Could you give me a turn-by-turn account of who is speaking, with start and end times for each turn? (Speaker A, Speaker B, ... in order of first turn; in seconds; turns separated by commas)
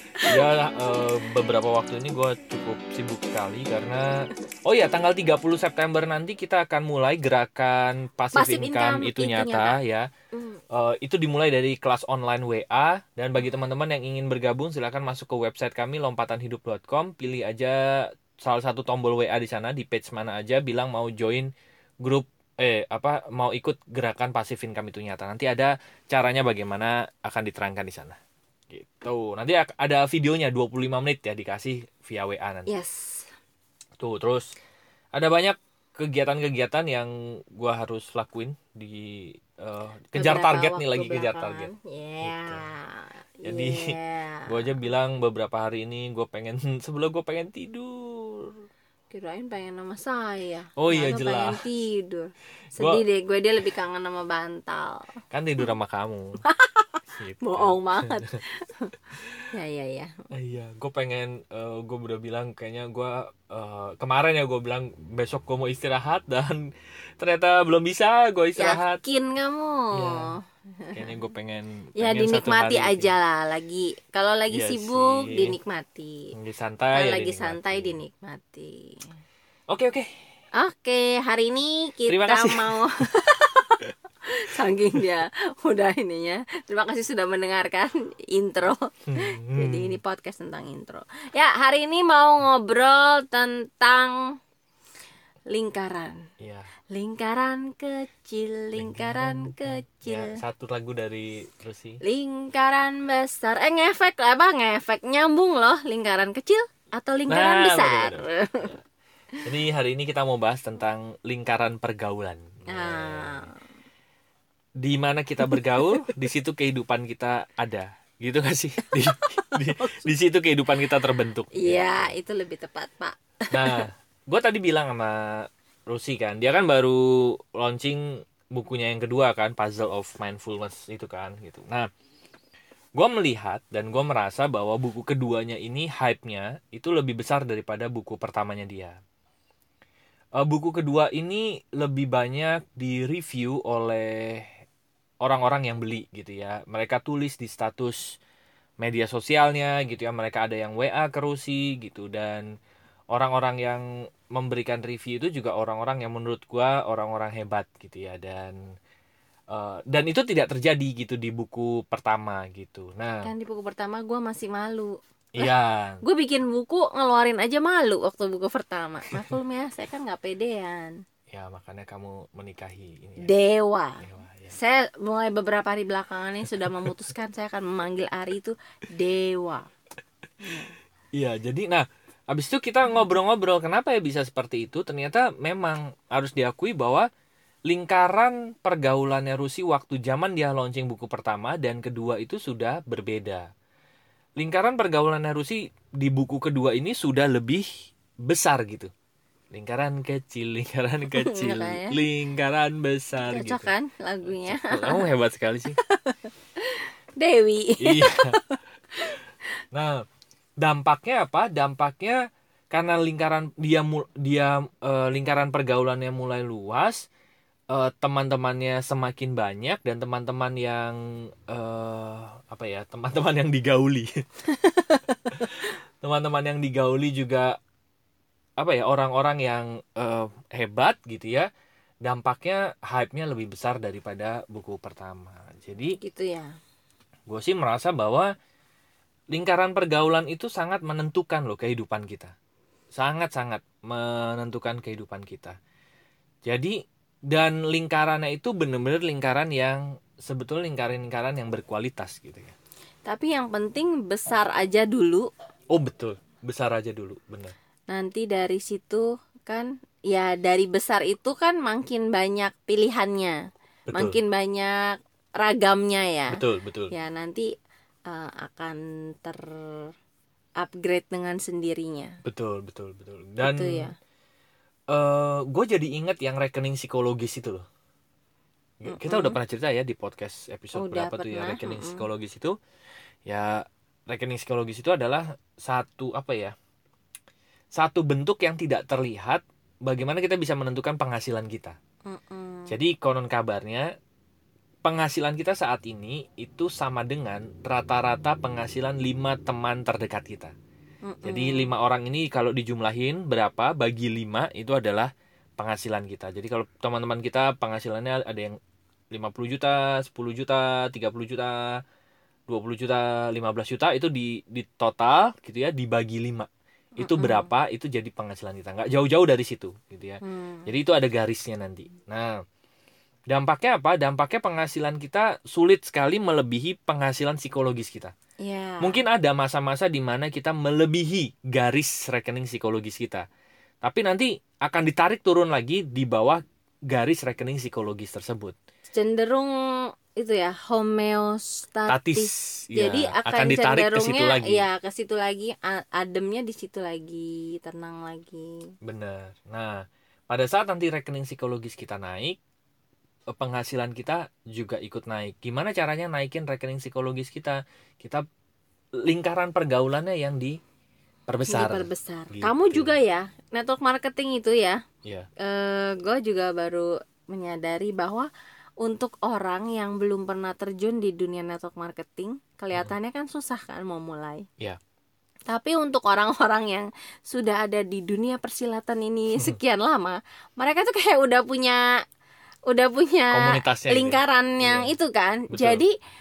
Speaker A: 0.2-0.4, Speaker B: 0.2-10.1, Speaker A: 8.3-9.8, Speaker A: 10.3-10.6, Speaker B: 10.7-21.5, Speaker B: 22.0-28.2, Speaker B: 28.7-32.7, Speaker A: 32.7-33.3, Speaker B: 34.0-34.5, Speaker B: 35.1-41.7, Speaker A: 40.1-44.6, Speaker B: 42.2-42.6, Speaker B: 43.5-44.0, Speaker B: 44.5-48.6, Speaker A: 49.1-55.1, Speaker B: 50.8-51.6, Speaker B: 52.8-53.0, Speaker B: 55.3-56.4, Speaker A: 56.5-59.0, Speaker B: 57.1-58.4, Speaker A: 59.5-60.2, Speaker B: 60.3-66.7, Speaker B: 67.2-69.0, Speaker A: 68.6-71.2, Speaker B: 69.9-70.3, Speaker B: 70.9-73.1, Speaker A: 72.0-76.3, Speaker B: 74.5-75.5, Speaker B: 76.3-78.0, Speaker A: 76.9-79.2, Speaker B: 79.7-80.1, Speaker A: 80.5-94.4, Speaker B: 82.1-82.8, Speaker B: 89.1-90.0, Speaker A: 95.5-96.2, Speaker B: 96.4-96.7, Speaker A: 96.9-100.4, Speaker B: 98.8-102.0, Speaker A: 102.0-108.7, Speaker B: 107.3-108.8, Speaker B: 109.4-113.5, Speaker A: 112.7-113.5, Speaker B: 114.8-122.2, Speaker A: 115.4-116.0, Speaker A: 118.8-120.0, Speaker A: 121.5-123.8, Speaker B: 123.5-131.9, Speaker B: 132.9-139.0, Speaker B: 140.4-144.6, Speaker B: 145.2-148.2, Speaker B: 148.8-152.5, Speaker B: 153.1-158.6, Speaker B: 159.5-163.3, Speaker A: 163.2-171.0, Speaker B: 165.3-166.0, Speaker B: 171.3-173.3, Speaker A: 173.2-179.7, Speaker B: 174.0-174.5, Speaker A: 180.4-180.7, Speaker B: 181.1-187.1, Speaker B: 187.7-193.5, Speaker B: 194.4-197.7, Speaker B: 198.2-198.9, Speaker B: 199.5-203.7, Speaker A: 201.1-202.0, Speaker A: 203.2-205.1, Speaker B: 204.2-205.8, Speaker A: 205.8-209.2, Speaker B: 207.8-208.4, Speaker B: 209.7-210.0, Speaker B: 210.6-212.2, Speaker B: 212.7-217.1, Speaker B: 217.7-224.2, Speaker A: 224.5-225.6, Speaker B: 225.4-227.6, Speaker B: 228.6-231.5, Speaker B: 232.0-236.0, Speaker A: 236.0-236.5, Speaker B: 237.3-238.3, Speaker B: 239.3-242.3, Speaker B: 242.9-245.6, Speaker B: 246.4-246.8, Speaker B: 247.3-252.5, Speaker A: 253.1-255.3, Speaker B: 255.7-257.5, Speaker A: 257.9-263.4, Speaker B: 263.9-264.2, Speaker A: 263.9-267.5, Speaker B: 266.3-266.9, Speaker A: 268.1-269.9, Speaker A: 270.6-272.1, Speaker B: 272.2-273.9, Speaker A: 273.4-273.9, Speaker B: 274.9-277.6, Speaker B: 278.8-282.5, Speaker A: 278.9-279.4, Speaker A: 280.7-282.1, Speaker B: 283.2-286.5, Speaker B: 287.7-291.8, Speaker A: 292.1-292.8, Speaker B: 292.7-293.9, Speaker B: 294.8-300.5, Speaker A: 301.0-301.7, Speaker B: 301.2-308.6, Speaker B: 309.1-311.8, Speaker B: 312.5-316.5, Speaker A: 317.0-317.5, Speaker B: 317.0-322.4, Speaker A: 320.2-320.7, Speaker B: 323.3-328.1, Speaker A: 328.4-329.0, Speaker B: 328.8-333.2, Speaker B: 333.8-338.5, Speaker A: 338.9-348.7, Speaker B: 341.9-344.6, Speaker B: 348.8-352.4, Speaker B: 353.3-358.2, Speaker B: 359.0-360.6, Speaker B: 361.3-362.9, Speaker A: 361.5-364.8, Speaker A: 365.4-368.3, Speaker A: 368.8-374.4, Speaker A: 375.5-381.8, Speaker A: 382.7-385.9, Speaker B: 383.3-384.9, Speaker B: 385.5-385.8